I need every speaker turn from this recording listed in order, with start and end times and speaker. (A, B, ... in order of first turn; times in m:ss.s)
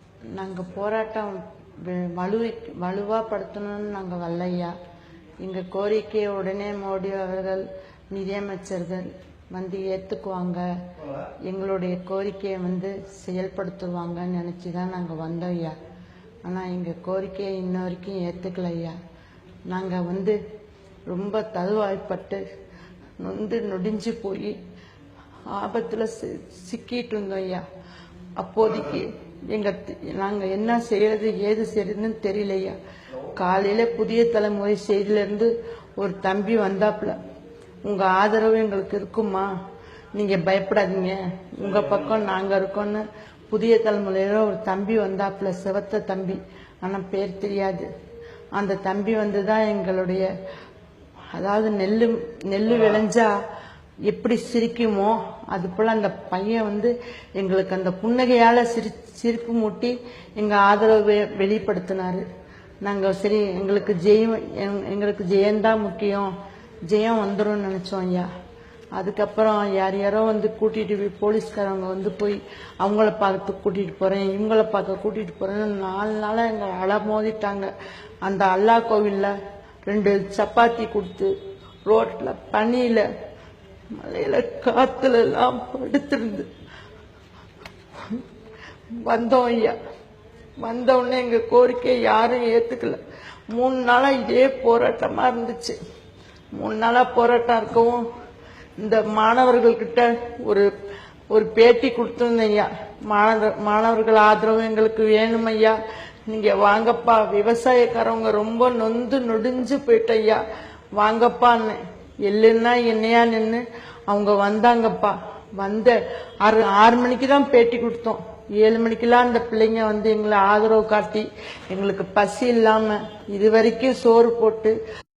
0:00.4-0:04.7 A
0:05.4-0:10.6 A
0:11.4-0:15.8 A
0:16.4-0:19.0 A
0:19.7-0:20.4 A
0:21.1-0:22.4 A
0:23.2-0:24.6 A
0:25.5-0:27.6 A
0:28.4-0:32.8 A
0:33.3-0:37.2 A
0:37.8-0:39.5 A
0:40.1-0:47.9 A
0:48.6-0:50.3 A
0:51.3-0:53.3 A
0:54.1-1:02.2 A
1:02.8-1:06.3 A
1:06.9-1:08.3 A
1:09.0-1:17.7 A
1:18.2-1:19.3 A
1:19.9-1:21.3 A
1:21.9-1:23.0 A
1:24.0-1:26.5 A
1:29.0-1:29.8 A
1:30.6-1:33.0 A
1:33.5-1:35.8 A
1:36.6-1:38.0 A
1:38.8-1:40.7 A
1:41.3-1:50.4 A
1:51.0-2:04.8 A